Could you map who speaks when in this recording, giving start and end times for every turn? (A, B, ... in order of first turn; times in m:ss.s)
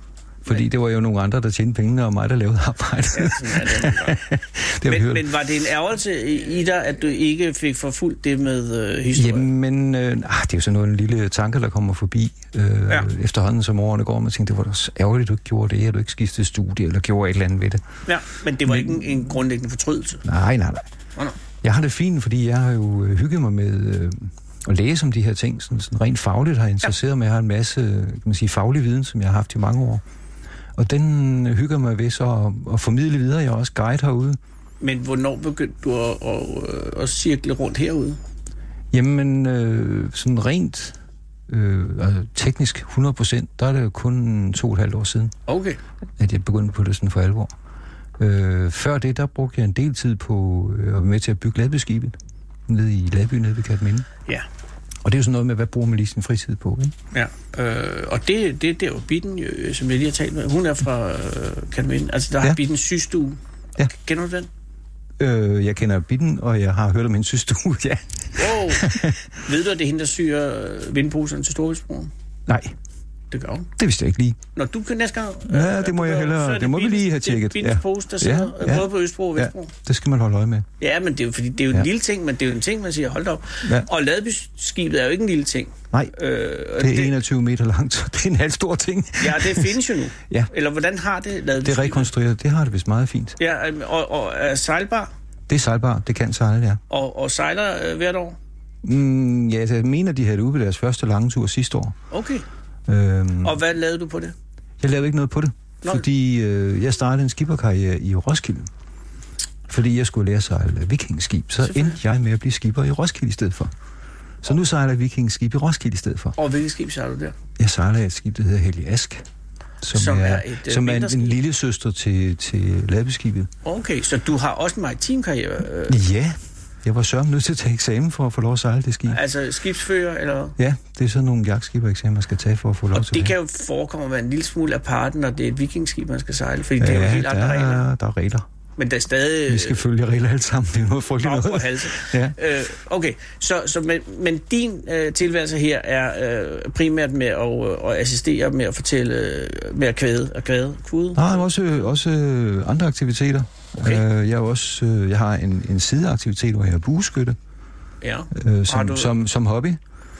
0:00.4-0:05.3 A
0:03.1-0:04.2 B
0:04.8-0:09.5 B
0:09.1-0:17.8 A
0:18.1-0:20.2 B
0:18.7-0:19.1 A
0:20.2-0:20.9 A
0:21.6-0:30.0 A
0:30.8-0:34.4 A
0:34.8-0:38.2 B
0:38.9-0:41.0 A
0:41.5-0:45.3 A
0:45.5-0:45.8 B
0:46.2-0:47.5 A
0:48.2-0:52.2 A
0:52.7-0:54.1 A
0:55.0-0:56.9 A
0:57.1-1:04.5 B
1:05.2-1:09.2 A
1:08.4-1:12.1 B
1:12.5-1:12.8 A
1:13.3-1:13.7 B
1:13.8-1:14.4 A
1:14.6-1:19.7 B
1:15.5-1:20.6 A
1:20.8-1:27.1 B
1:26.8-1:29.8 A
1:29.2-1:32.1 B
1:31.6-1:33.4 A
1:33.4-1:35.1 B
1:35.5-1:36.8 A
1:36.9-1:38.4 B
1:38.8-1:42.0 A
1:42.1-1:42.4 B
1:42.9-1:43.6 A
1:43.4-1:44.3 B
1:44.8-1:48.7 A
1:49.7-1:53.7 A
1:51.6-1:52.0 B
1:54.4-1:56.4 A
1:56.4-1:57.4 B
1:57.6-1:59.2 A
1:59.8-2:03.5 A
1:59.9-2:01.4 B
2:03.6-2:06.0 B
2:05.9-2:09.2 A
2:09.1-2:10.6 B
2:10.6-2:13.3 A
2:12.9-2:17.8 B
2:16.8-2:18.4 A
2:18.8-2:19.8 B
2:19.5-2:22.4 A
2:21.2-2:31.4 B
2:31.2-2:37.4 A
2:38.0-2:39.1 B
2:38.3-2:39.8 A